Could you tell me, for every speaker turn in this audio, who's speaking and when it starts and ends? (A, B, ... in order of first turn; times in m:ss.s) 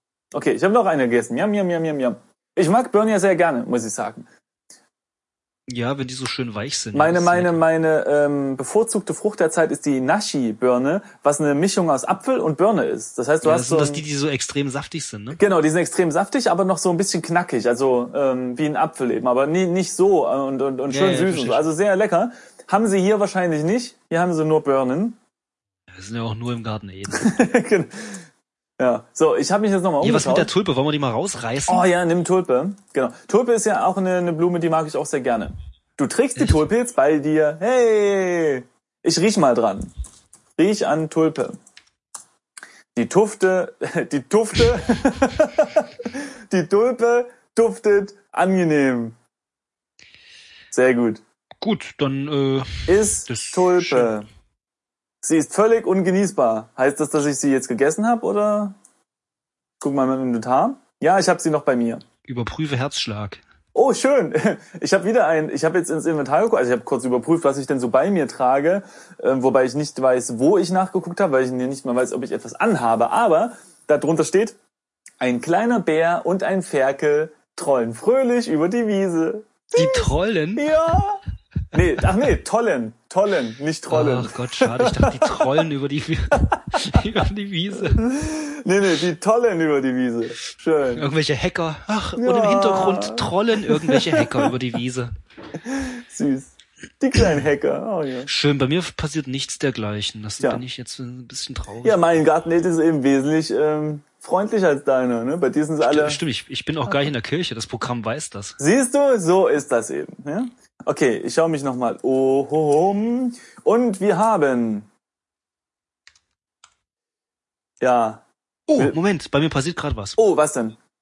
0:00.3-0:04.3 A
0:05.7-0:07.6 B
0:06.9-0:14.0 A
0:13.4-0:15.4 B
0:15.4-0:25.2 A
0:20.9-0:21.7 B
0:25.9-0:27.4 B
0:27.1-0:28.2 A
0:28.8-0:30.5 A
0:30.0-0:31.9 B
0:31.7-0:39.9 A
0:36.4-0:36.7 B
0:40.6-0:41.6 A
0:43.0-0:49.2 A
0:50.7-0:51.2 A
0:51.6-0:54.1 B
0:52.9-0:54.3 A
0:55.2-0:58.8 A
0:59.8-1:02.0 A
1:02.2-1:03.4 B
1:03.7-1:14.6 A
1:15.2-1:25.6 A
1:19.8-1:20.7 B
1:23.9-1:28.0 B
1:26.4-1:27.0 A
1:27.8-1:31.1 A
1:31.0-1:35.1 B
1:32.2-1:34.5 A
1:35.6-1:38.3 A
1:38.3-1:42.2 B
1:41.8-1:46.2 A
1:45.8-1:48.6 B
1:48.6-1:54.9 A
1:57.8-1:58.2 A
1:58.7-2:00.2 B
2:00.2-2:00.8 A